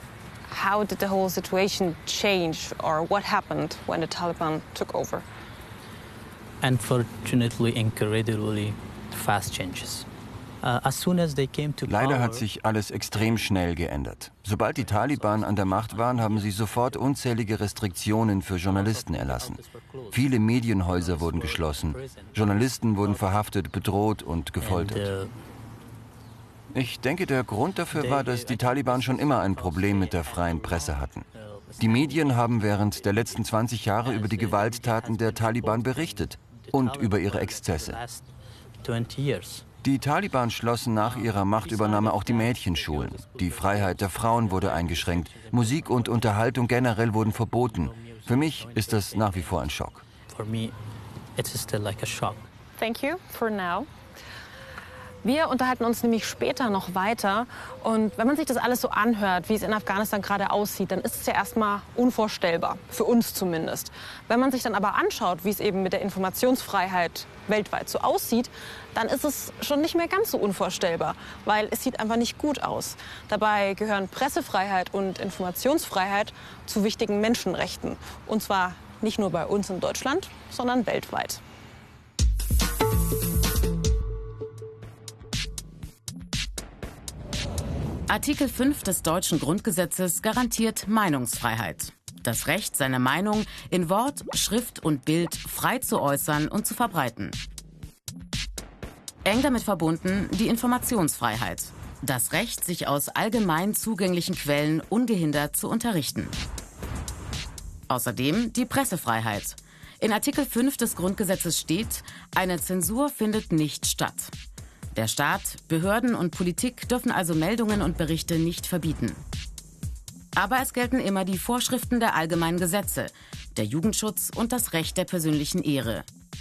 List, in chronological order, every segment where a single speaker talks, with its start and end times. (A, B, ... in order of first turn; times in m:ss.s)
0:00.5-0:05.2 A
0:06.6-0:10.1 B
0:10.6-0:13.5 B
0:11.8-0:19.6 C
0:14.6-0:17.2 B
0:18.6-0:23.6 B
0:20.1-0:25.1 C
0:24.6-0:25.3 B
0:26.7-0:31.3 C
0:27.9-0:38.3 B
0:31.8-0:38.0 C
0:38.8-0:39.7 B
0:39.8-0:50.0 C
0:41.0-0:50.7 B
0:51.4-0:52.4 B
0:52.8-0:53.9 A
0:55.2-1:21.4 A
1:28.1-1:37.4 D
1:39.2-1:46.4 D
1:47.9-1:54.3 D
1:54.9-1:59.2 D
2:00.3-2:06.0 D